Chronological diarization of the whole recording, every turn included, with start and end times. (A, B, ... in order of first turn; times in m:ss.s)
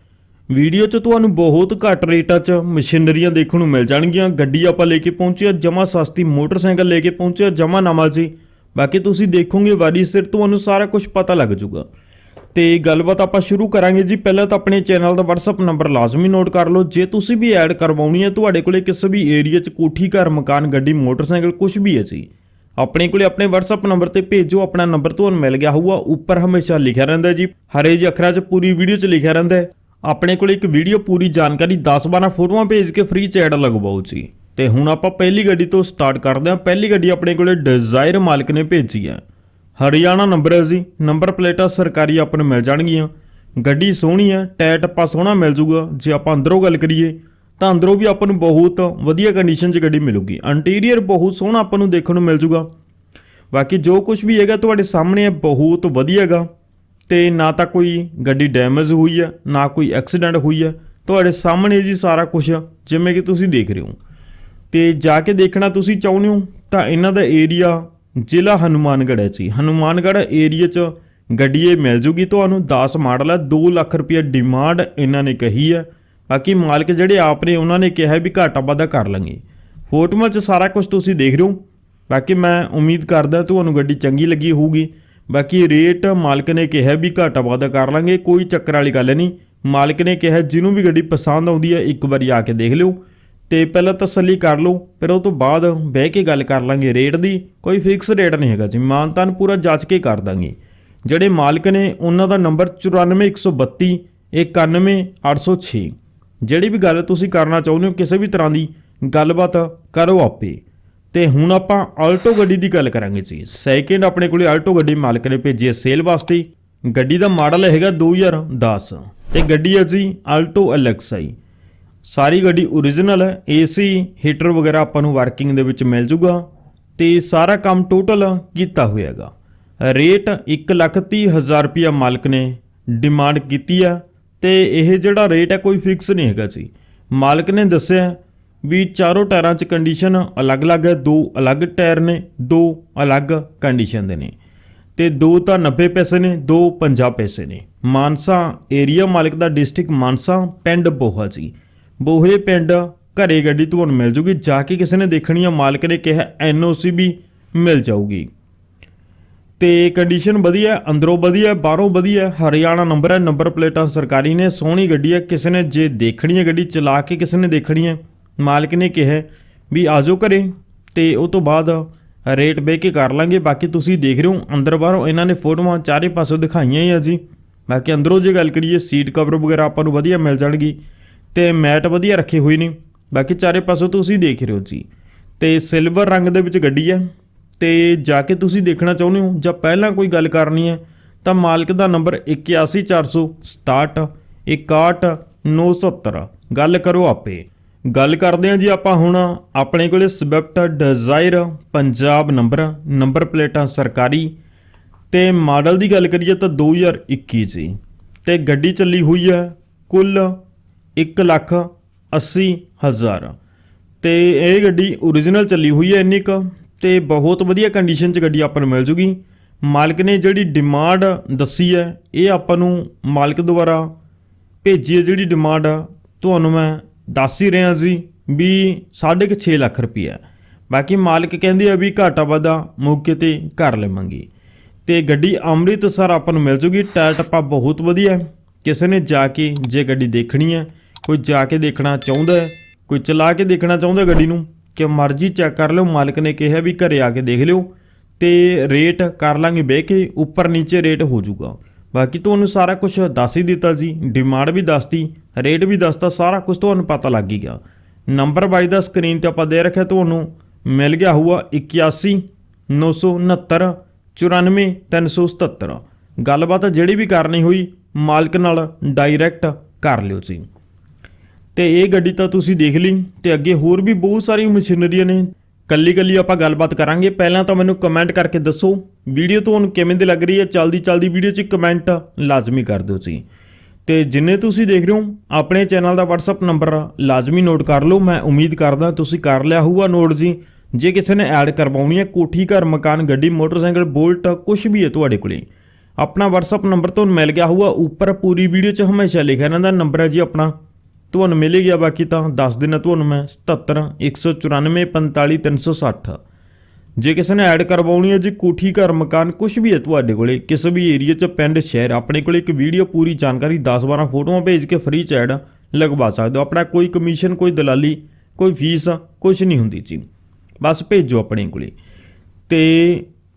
0:00.5-0:11.9 A
0:12.5-0:39.2 A
0:39.8-0:52.7 A
0:53.5-0:56.5 A
0:57.1-1:04.0 A
1:04.7-2:01.3 A
2:02.0-2:06.4 A
2:07.0-2:09.3 A
2:09.8-2:24.3 A
2:25.0-2:38.3 A
2:39.6-3:00.8 A
3:01.3-3:04.8 A
3:05.4-3:07.1 A
3:07.6-3:24.3 A
3:25.1-3:30.4 A
3:31.0-3:33.4 A
3:34.0-3:43.9 A
3:44.6-3:54.3 A
3:54.8-4:30.4 A
4:31.5-4:43.2 A
4:43.8-4:55.4 A
4:56.0-5:00.5 A
5:01.1-5:06.2 A
5:07.0-5:20.0 A
5:20.6-5:21.7 A
5:22.5-5:23.1 A